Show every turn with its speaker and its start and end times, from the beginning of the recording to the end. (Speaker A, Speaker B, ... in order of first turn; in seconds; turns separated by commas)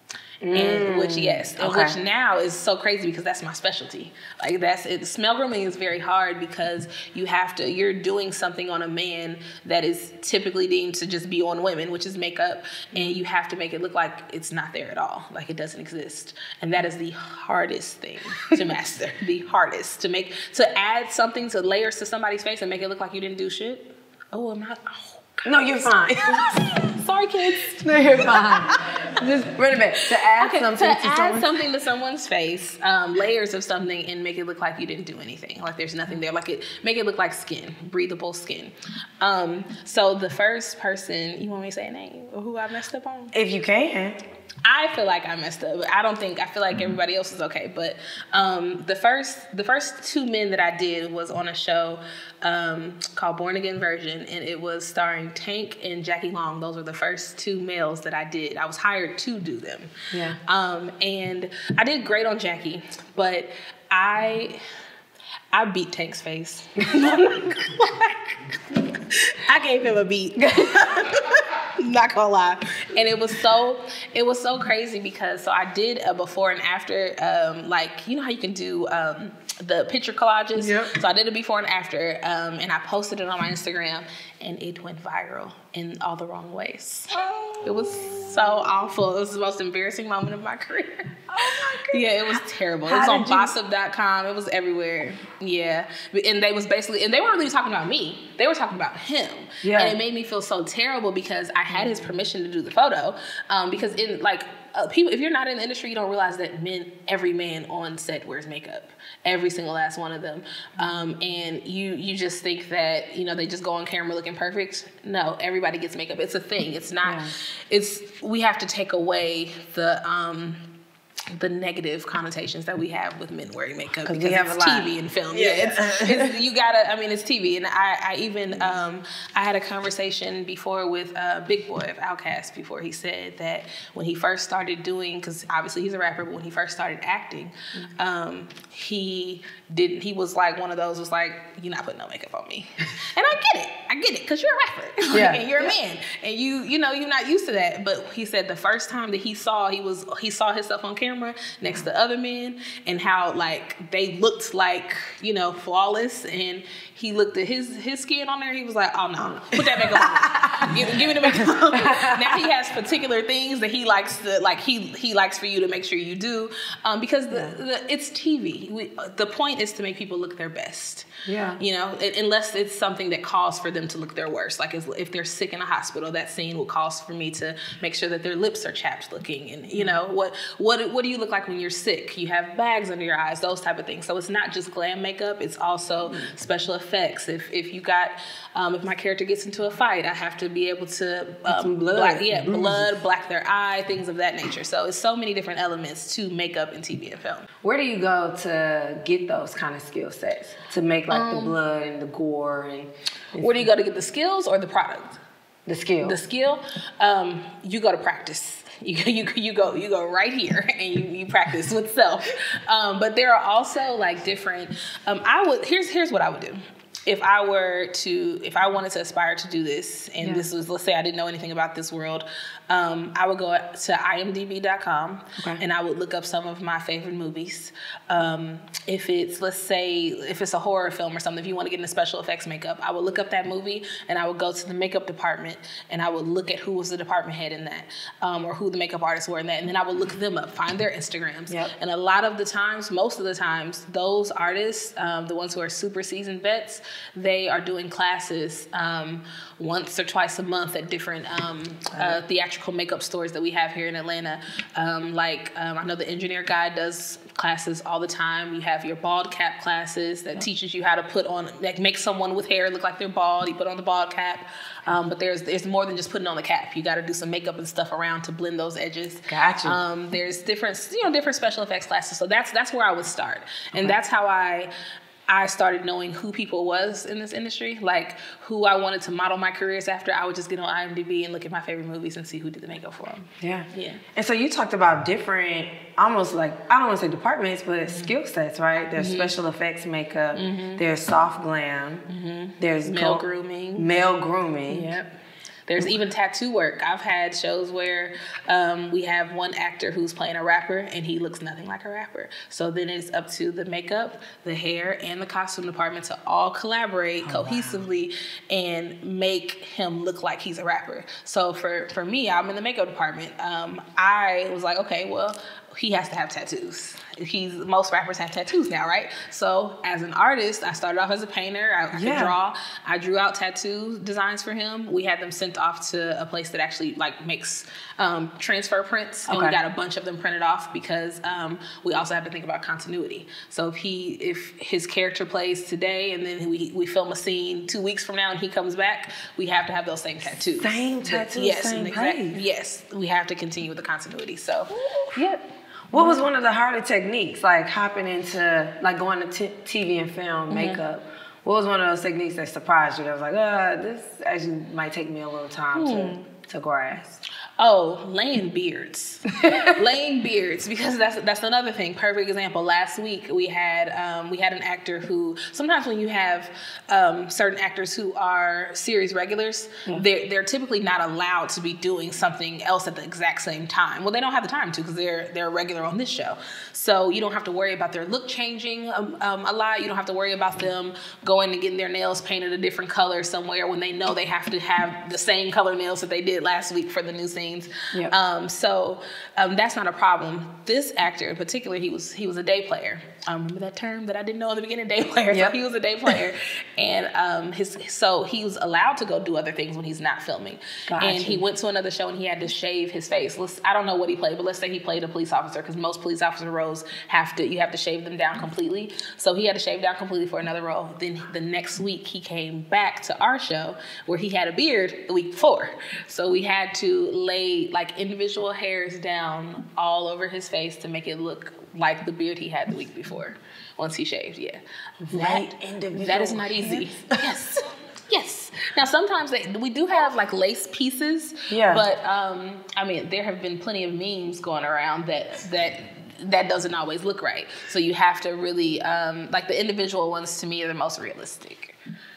Speaker A: 0.4-2.0, Speaker B: 0.5-29.1, Speaker A: 25.4-26.7, Speaker A: 27.6-31.5, Speaker B: 30.3-43.3, Speaker A: 43.3-44.2, Speaker B: 44.6-59.9, Speaker A: 60.1-60.4, Speaker B: 60.5-64.6, Speaker B: 65.5-120.6, Speaker A: 67.0-67.4, Speaker A: 70.4-71.1, Speaker A: 80.6-81.0, Speaker A: 87.1-88.3, Speaker A: 91.3-93.5, Speaker A: 99.6-100.0, Speaker A: 101.7-102.2, Speaker A: 110.8-111.1, Speaker A: 117.0-117.3, Speaker B: 121.3-197.5, Speaker A: 124.0-126.4, Speaker A: 145.1-145.8, Speaker A: 159.7-162.4, Speaker A: 171.2-171.6, Speaker A: 191.5-192.9, Speaker A: 197.6-203.7, Speaker B: 201.1-201.6, Speaker B: 203.4-205.2, Speaker A: 205.7-206.2, Speaker B: 206.0-274.7, Speaker A: 251.9-252.2, Speaker A: 269.3-269.8, Speaker B: 275.3-284.0, Speaker A: 283.4-292.1, Speaker B: 289.0-289.3, Speaker B: 290.3-290.8, Speaker B: 292.1-293.9, Speaker A: 292.6-293.2, Speaker A: 293.8-294.9, Speaker B: 294.7-295.1, Speaker B: 295.7-346.2, Speaker A: 307.2-307.8, Speaker A: 321.9-322.4, Speaker A: 329.3-329.6, Speaker A: 340.6-342.4, Speaker A: 344.7-345.2, Speaker A: 345.9-357.2, Speaker B: 350.5-350.8, Speaker B: 355.7-356.3, Speaker B: 357.6-441.8, Speaker A: 359.4-359.7, Speaker A: 395.3-395.6, Speaker A: 400.9-401.4, Speaker A: 425.1-427.4, Speaker A: 431.5-431.9